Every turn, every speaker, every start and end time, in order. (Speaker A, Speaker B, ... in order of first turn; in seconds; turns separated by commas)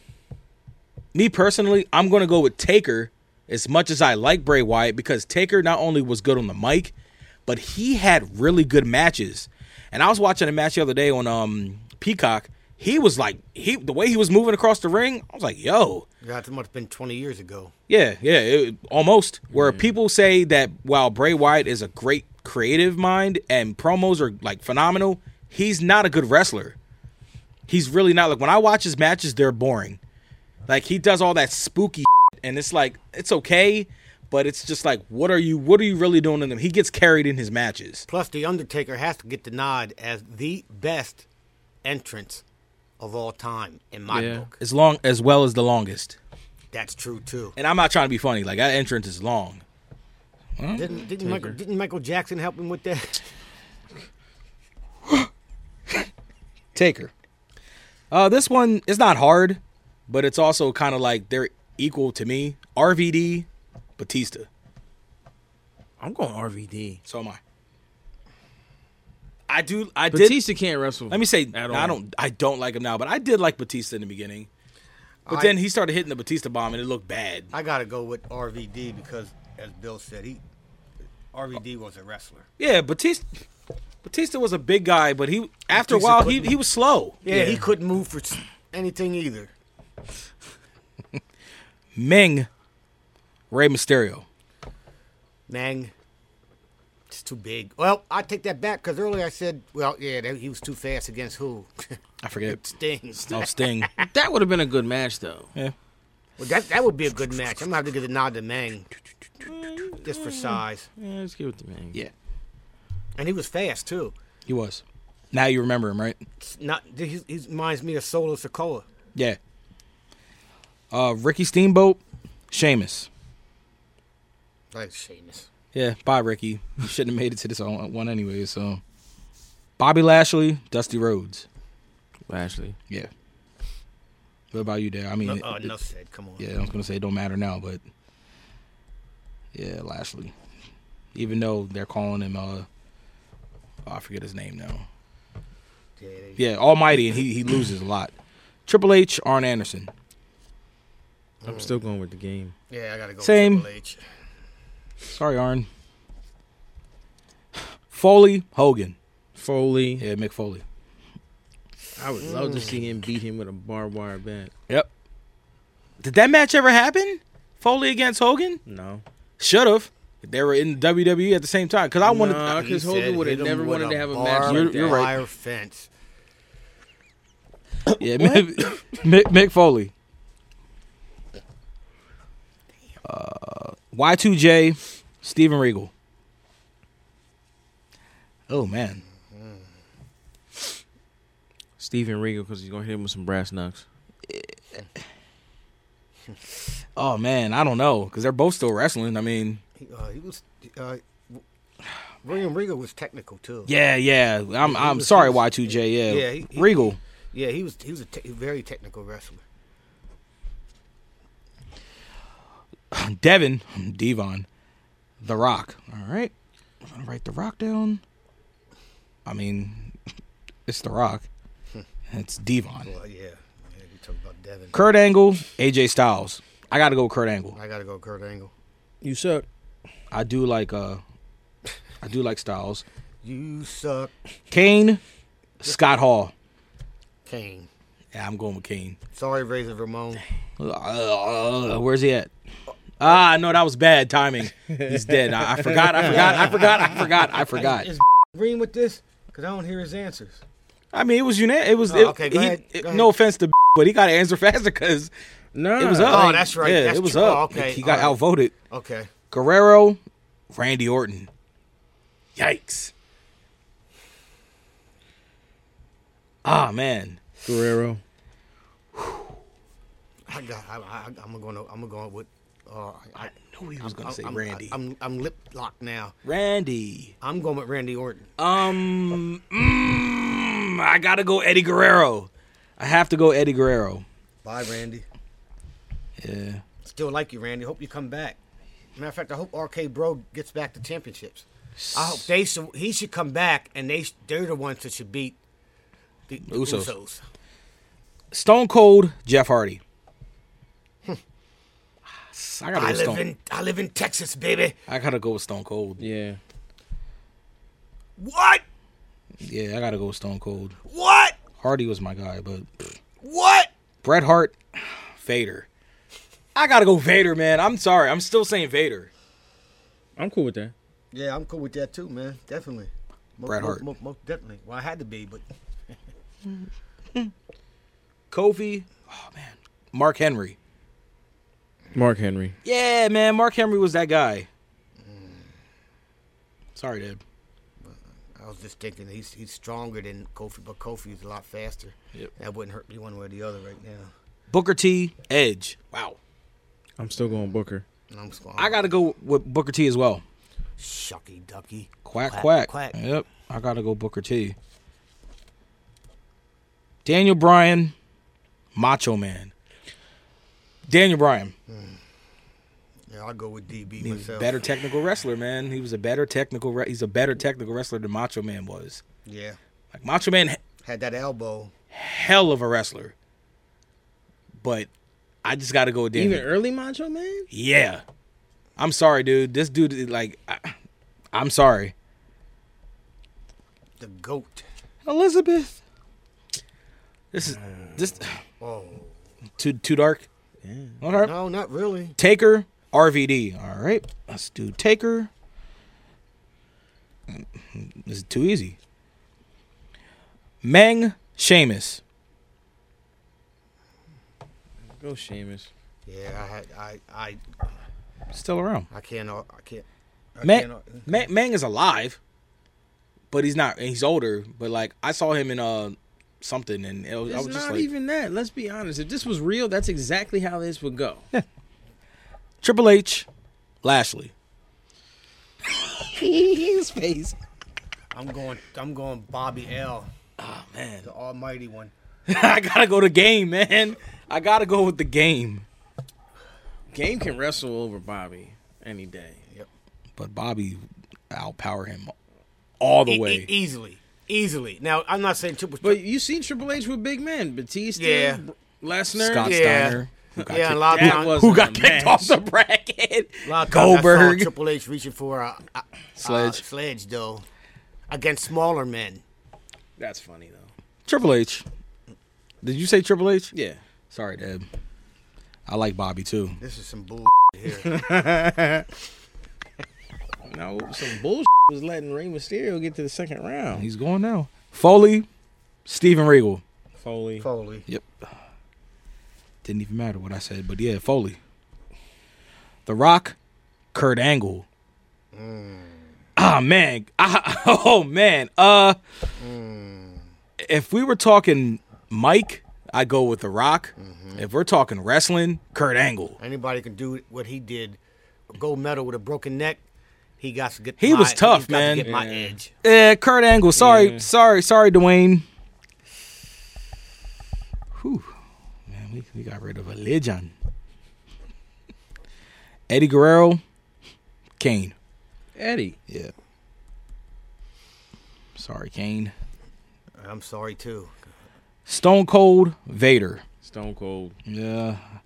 Speaker A: 1.1-6.9, Speaker A: 7.5-16.1, Speaker B: 16.2-17.7, Speaker A: 17.9-26.8, Speaker C: 19.5-19.8, Speaker A: 27.7-30.0, Speaker A: 30.7-38.1, Speaker B: 38.1-41.2, Speaker B: 41.8-42.4, Speaker B: 43.0-44.6, Speaker C: 44.1-44.5, Speaker A: 44.6-46.2, Speaker B: 46.7-47.6, Speaker A: 47.6-49.6, Speaker A: 50.6-51.0, Speaker B: 50.7-53.2, Speaker C: 51.2-51.6, Speaker A: 56.8-57.1, Speaker A: 58.1-63.5, Speaker A: 64.0-64.5, Speaker C: 66.0-67.0, Speaker A: 67.1-67.4, Speaker A: 69.5-70.4, Speaker C: 70.1-72.0, Speaker A: 71.1-74.5, Speaker B: 75.3-75.6, Speaker A: 75.3-77.5, Speaker B: 77.5-80.4, Speaker B: 81.3-82.5, Speaker A: 82.6-83.2, Speaker A: 84.0-87.2, Speaker B: 85.7-86.5, Speaker B: 87.2-89.5, Speaker C: 87.3-87.6, Speaker A: 92.0-92.5, Speaker A: 93.5-94.2, Speaker B: 95.5-95.9, Speaker B: 97.1-102.0, Speaker A: 102.2-102.7, Speaker B: 102.5-104.0, Speaker A: 103.3-103.9, Speaker C: 104.0-105.5, Speaker B: 106.4-108.9, Speaker C: 109.5-112.0, Speaker B: 110.0-110.9, Speaker B: 113.2-114.2, Speaker A: 114.5-116.2, Speaker B: 116.4-118.9, Speaker A: 120.9-122.0, Speaker A: 122.5-123.1, Speaker B: 124.7-125.5, Speaker A: 125.7-128.8, Speaker A: 129.8-131.5, Speaker C: 132.3-132.8, Speaker A: 134.5-135.7, Speaker B: 135.2-136.5, Speaker A: 136.4-137.8, Speaker A: 139.5-140.3, Speaker A: 141.2-142.7, Speaker A: 143.9-144.9, Speaker B: 146.0-146.4, Speaker A: 146.4-148.1, Speaker A: 148.7-149.9, Speaker B: 151.4-151.7, Speaker C: 151.4-152.5, Speaker B: 152.7-154.0, Speaker A: 153.2-153.7, Speaker A: 155.1-155.7, Speaker A: 157.9-159.0, Speaker C: 159.4-160.1, Speaker A: 160.0-160.6, Speaker C: 162.0-164.5, Speaker B: 162.2-162.9, Speaker A: 166.0-168.6, Speaker C: 168.7-169.0, Speaker A: 169.4-172.7, Speaker C: 172.0-175.1, Speaker B: 172.4-175.9, Speaker A: 174.4-175.2, Speaker A: 177.9-179.9, Speaker A: 183.0-185.9, Speaker A: 188.5-189.0, Speaker B: 189.3-189.6, Speaker C: 191.8-193.8, Speaker A: 194.3-194.6, Speaker A: 197.0-199.6, Speaker B: 199.8-201.4, Speaker B: 202.2-203.7, Speaker A: 203.7-207.0, Speaker B: 204.6-209.4, Speaker A: 212.9-214.5, Speaker A: 215.2-216.3, Speaker A: 216.8-218.0, Speaker A: 219.2-220.0, Speaker A: 220.7-221.3, Speaker A: 222.1-222.9, Speaker B: 222.8-224.8, Speaker A: 224.7-227.6, Speaker B: 227.5-228.5, Speaker C: 229.0-229.5, Speaker A: 230.1-231.0, Speaker A: 232.0-232.8, Speaker B: 233.2-234.1, Speaker A: 234.5-235.0, Speaker A: 235.6-236.3, Speaker B: 237.2-237.7, Speaker A: 238.1-239.0, Speaker B: 239.1-240.2, Speaker A: 240.6-242.3, Speaker A: 243.0-247.9, Speaker C: 244.7-246.5, Speaker B: 246.1-247.0, Speaker B: 247.5-250.4, Speaker A: 250.9-255.1, Speaker B: 251.9-253.1, Speaker C: 255.5-256.4, Speaker A: 255.8-258.5, Speaker B: 256.1-258.2, Speaker B: 258.7-259.1, Speaker A: 259.3-260.0, Speaker A: 260.5-261.3, Speaker A: 262.4-262.9, Speaker A: 266.4-267.2, Speaker C: 267.4-268.0, Speaker A: 268.9-269.3, Speaker B: 270.3-276.1, Speaker A: 273.2-274.8, Speaker A: 276.2-277.1, Speaker B: 277.2-278.3, Speaker A: 278.4-284.1, Speaker B: 284.4-285.1, Speaker A: 286.2-286.6, Speaker B: 286.8-288.4, Speaker B: 289.0-295.4, Speaker A: 291.8-292.3, Speaker B: 296.3-297.2, Speaker A: 296.5-296.9, Speaker A: 298.3-299.8, Speaker A: 302.3-303.2, Speaker B: 302.7-304.8, Speaker A: 304.9-306.1, Speaker C: 306.0-306.4, Speaker B: 308.2-308.6, Speaker A: 309.4-310.8, Speaker B: 310.9-311.4, Speaker A: 311.6-312.9, Speaker B: 313.2-313.7, Speaker A: 314.0-315.7, Speaker A: 316.6-319.1, Speaker C: 320.2-320.7, Speaker B: 321.1-325.4, Speaker A: 323.4-323.8, Speaker A: 328.3-330.6, Speaker C: 331.9-332.6, Speaker A: 332.6-334.5, Speaker B: 335.0-335.5, Speaker A: 336.8-337.2, Speaker B: 337.8-344.1, Speaker A: 344.5-346.2, Speaker C: 347.0-347.9, Speaker B: 348.1-348.8, Speaker A: 348.6-350.2, Speaker B: 350.8-353.0, Speaker A: 352.1-354.6, Speaker A: 357.1-357.9, Speaker A: 358.8-359.5, Speaker A: 360.9-361.5, Speaker B: 361.7-362.0, Speaker B: 363.1-364.6, Speaker A: 364.0-369.0, Speaker B: 369.2-369.6, Speaker A: 369.9-370.6, Speaker B: 370.8-371.7, Speaker A: 371.9-373.1, Speaker A: 374.6-374.9, Speaker A: 375.4-376.5, Speaker C: 376.1-377.5, Speaker A: 377.5-378.0, Speaker A: 378.8-380.8, Speaker A: 381.3-381.9, Speaker B: 384.0-384.7, Speaker A: 385.1-385.8, Speaker A: 387.3-388.3, Speaker C: 387.4-388.2, Speaker B: 388.6-389.1, Speaker A: 389.6-390.3, Speaker C: 390.6-391.0, Speaker A: 391.0-391.3, Speaker B: 391.1-392.2, Speaker A: 392.2-395.3, Speaker A: 397.3-398.8, Speaker A: 400.6-402.0, Speaker C: 405.0-405.7, Speaker B: 406.1-407.4, Speaker A: 408.3-408.9, Speaker B: 408.9-411.2, Speaker A: 410.4-412.2, Speaker A: 413.3-417.9, Speaker C: 417.3-421.3, Speaker A: 422.6-423.3, Speaker A: 423.8-424.3, Speaker A: 425.7-427.4, Speaker B: 428.1-430.1, Speaker A: 430.4-431.1, Speaker B: 431.0-431.9, Speaker A: 432.3-435.7, Speaker C: 436.9-439.4, Speaker A: 440.2-442.1, Speaker A: 442.8-443.5, Speaker B: 443.1-446.0, Speaker C: 445.8-449.8, Speaker B: 448.0-448.4, Speaker A: 449.1-454.5, Speaker B: 449.4-451.4, Speaker C: 450.7-452.5, Speaker B: 453.4-457.4, Speaker A: 456.2-456.6, Speaker B: 458.1-459.2, Speaker C: 460.0-460.7, Speaker A: 461.1-461.6, Speaker A: 462.6-463.5, Speaker C: 463.5-463.8, Speaker A: 464.1-464.7, Speaker A: 465.7-466.6, Speaker B: 466.6-468.0, Speaker C: 467.8-468.9, Speaker C: 470.4-473.9, Speaker A: 473.8-475.3, Speaker A: 475.9-476.6, Speaker C: 477.0-477.4, Speaker B: 477.4-477.9, Speaker A: 479.6-481.4, Speaker A: 482.9-483.4, Speaker A: 483.9-484.7, Speaker B: 485.3-486.1, Speaker A: 486.4-489.0, Speaker B: 489.4-490.3, Speaker A: 490.6-496.4, Speaker B: 494.0-494.5, Speaker B: 496.4-498.0, Speaker B: 498.5-499.8, Speaker B: 500.4-502.7, Speaker A: 501.0-502.1, Speaker C: 502.0-502.5, Speaker A: 502.8-505.5, Speaker C: 503.8-504.3, Speaker A: 507.9-508.3, Speaker A: 508.9-510.5, Speaker A: 512.9-513.6, Speaker A: 514.6-514.9, Speaker C: 515.6-516.0, Speaker A: 518.5-519.3, Speaker B: 520.2-521.1, Speaker A: 521.9-523.4, Speaker C: 523.6-524.4, Speaker A: 524.5-525.0